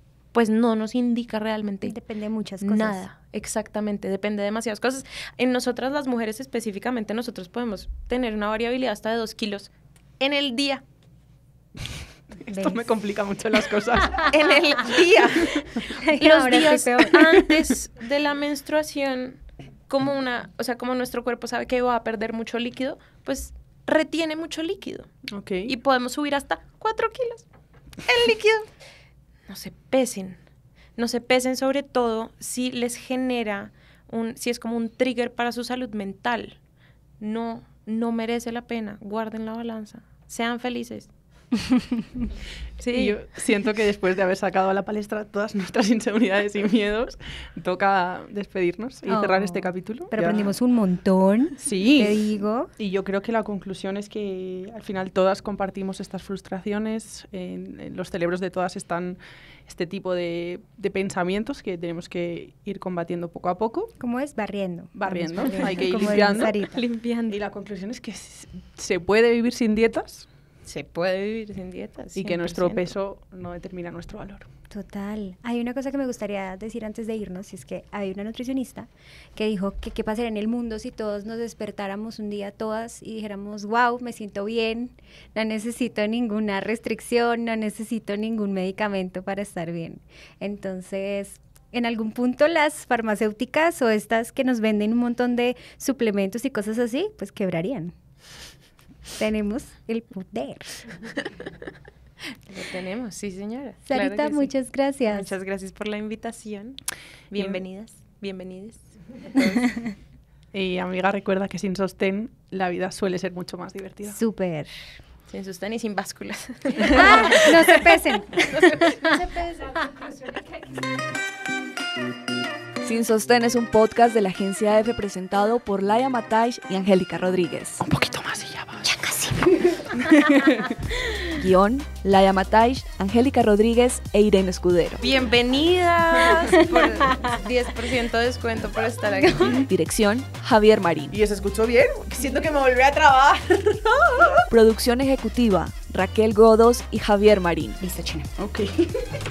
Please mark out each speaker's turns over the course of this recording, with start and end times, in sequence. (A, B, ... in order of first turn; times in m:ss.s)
0:00.3-0:01.9 A
0:01.8-0:03.0 B
0:02.6-0:10.8 A
0:12.5-0:14.2 C
0:12.5-0:12.8 B
0:14.3-0:25.1 A
0:16.0-0:17.7 B
0:25.3-0:25.7 C
0:25.7-0:27.4 A
0:28.1-0:28.7 A
0:29.5-0:30.4 A
0:31.0-0:36.6 A
0:37.2-0:41.1 A
0:41.7-0:42.0 B
0:42.8-0:43.2 A
0:43.0-0:50.5 C
0:49.1-0:52.7 B
0:51.6-0:52.2 C
0:52.8-1:03.9 C
1:04.0-1:06.8 B
1:05.0-1:06.5 C
1:05.9-1:07.4 A
1:07.3-1:10.3 C
1:10.7-1:12.9 A
1:12.2-1:14.5 C
1:14.7-1:38.0 B
1:39.2-1:40.8 B
1:42.5-1:44.5 A
1:43.9-1:45.3 B
1:45.1-1:46.8 A
1:47.3-1:49.8 A
1:50.5-1:54.2 C
1:54.1-1:54.9 B
1:55.3-2:00.7 A
1:56.8-1:59.2 B
2:02.8-2:07.8 D
2:07.8-2:08.9 C
2:08.8-2:10.0 B
2:10.0-2:10.7 C
2:11.4-2:15.0 D
2:15.0-2:19.6 A
2:16.6-2:17.3 B
2:19.6-2:21.2 D
2:21.1-2:24.4 C
2:24.5-2:27.8 D
2:27.8-2:28.3 B
2:28.4-2:29.2 C